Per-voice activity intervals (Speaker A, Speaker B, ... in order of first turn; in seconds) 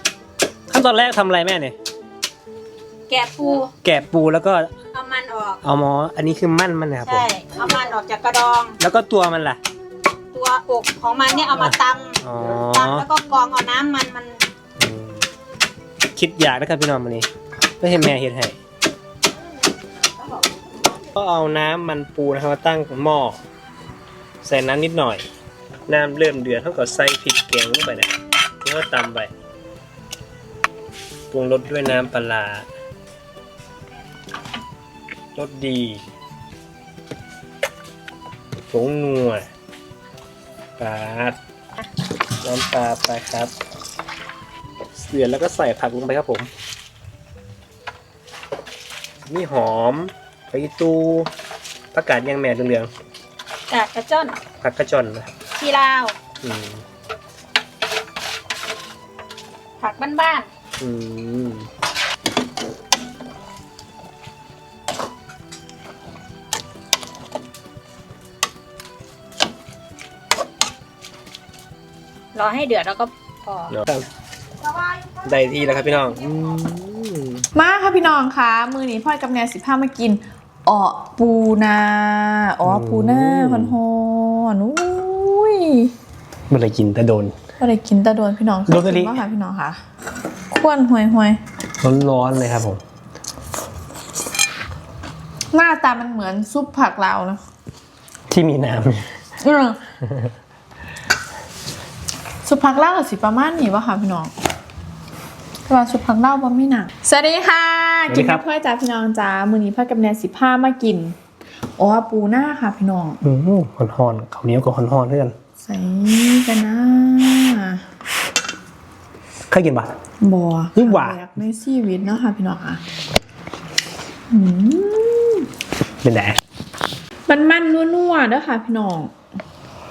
Speaker A: 0.7-1.8, 3.8-4.7, 5.6-7.3, 8.8-9.6, 11.6-13.1, 14.8-15.3, 16.1-17.3, 17.8-18.6, 21.1-23.4, 24.4-25.2, 25.9-29.3, 31.3-32.7, 35.4-36.0, 38.7-39.5, 40.8-41.4, 42.4-43.5, 45.0-46.5, 49.3-51.3, 51.9-52.9, 54.6-55.4, 56.4-56.8, 60.8-61.7, 73.7-74.1, 75.2-77.4, 82.6-83.8, 86.5-87.3, 88.7-89.2, 91.8-92.8, 98.3-99.1, 108.1-108.5, 113.2-115.3, 119.5-120.0, 120.8-121.2, 126.0-126.4
Speaker B: 3.1-3.7, 4.9-5.6, 7.0-8.8, 10.3-14.4, 53.7-54.4, 55.5-56.2, 59.8-60.5, 72.3-73.8, 74.8-76.4
Speaker C: 77.5-85.9, 87.6-89.8, 90.5-91.4, 95.5-97.4, 99.4-99.8, 102.5-104.3, 105.7-111.2, 111.8-113.2, 115.6-117.8, 120.2-122.8, 124.3-125.5, 127.3-129.1